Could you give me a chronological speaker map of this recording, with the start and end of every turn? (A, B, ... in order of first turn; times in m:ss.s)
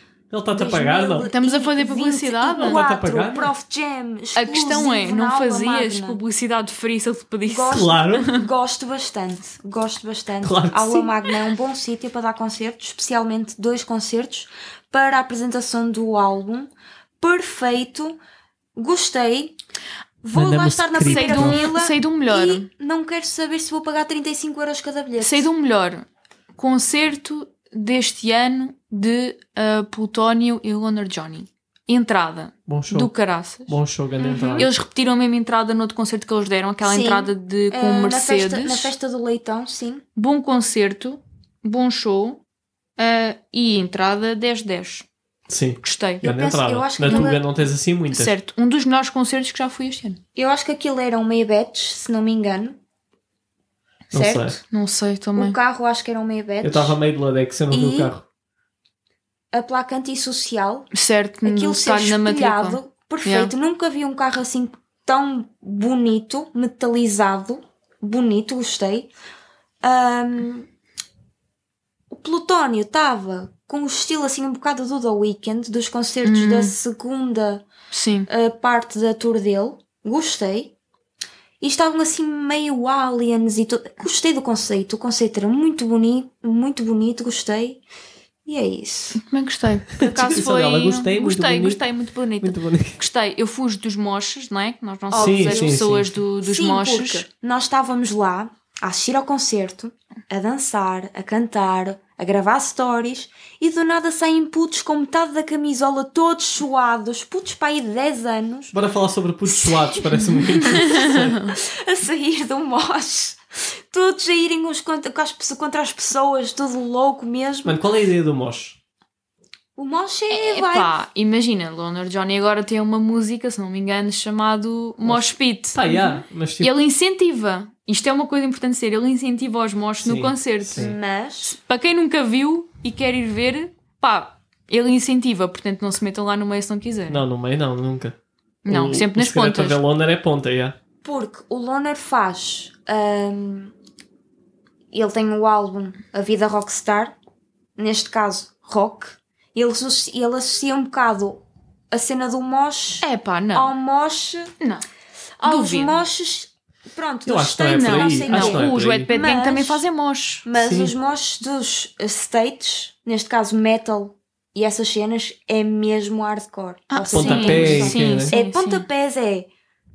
0:00.3-0:01.3 A
0:00.5-0:06.2 B
0:01.2-0:02.8 C
0:02.5-0:03.5 A
0:04.4-0:08.3 C
0:07.4-0:18.2 B
0:07.7-0:08.3 A
0:10.4-0:11.2 A
0:18.8-0:19.6 B
0:20.2-0:25.5 B
0:20.3-0:21.6 A
0:21.0-0:22.7 C
0:25.2-0:33.8 C
0:32.7-0:33.2 A
0:33.7-0:34.7 A
0:34.2-0:34.7 B
0:34.6-0:38.9 C
0:36.8-0:40.0 B
0:40.2-0:42.4 C
0:43.0-0:45.1 C
0:45.5-0:48.3 A
0:45.8-0:46.3 C
0:46.2-0:47.4 B
0:47.1-0:47.3 C
0:48.1-0:50.2 C
0:50.4-0:52.8 B
0:54.1-0:54.6 A
0:54.1-0:54.6 B
0:54.7-0:55.6 C
0:55.4-0:57.0 B
0:56.6-0:58.2 A
0:57.7-0:58.1 B
0:59.5-1:00.9 B
1:00.9-1:03.5 C
1:01.4-1:09.1 B
1:09.8-1:10.7 B
1:12.1-1:17.6 B
1:16.2-1:16.7 C
1:17.9-1:18.3 C
1:18.3-1:20.7 B
1:21.6-1:27.8 B
1:28.5-1:29.2 B
1:29.1-1:37.3 C
1:30.0-1:31.8 A
1:32.4-1:33.0 A
1:35.1-1:35.7 B
1:35.2-1:36.2 A
1:36.4-1:48.8 B
1:48.7-1:51.5 A
1:49.5-1:57.8 B
1:50.7-1:51.5 C
1:57.6-1:58.8 A
1:59.8-2:01.0 B
2:00.3-2:10.9 C
2:05.0-2:06.7 A
2:10.0-2:11.0 A
2:10.8-2:11.6 B
2:11.4-2:17.2 C
2:17.1-2:18.2 A
2:18.6-2:19.8 C
2:18.7-2:20.8 A
2:21.0-2:23.7 B
2:24.9-2:27.2 B
2:27.8-2:34.5 B
2:33.0-2:33.7 C
2:34.6-2:34.9 C
2:35.4-2:36.0 C
2:35.4-2:39.8 B
2:37.2-2:39.1 A
2:37.7-2:40.4 C
2:40.4-2:49.5 B
2:40.6-2:40.9 A
2:46.9-2:48.9 C
2:47.1-2:48.4 A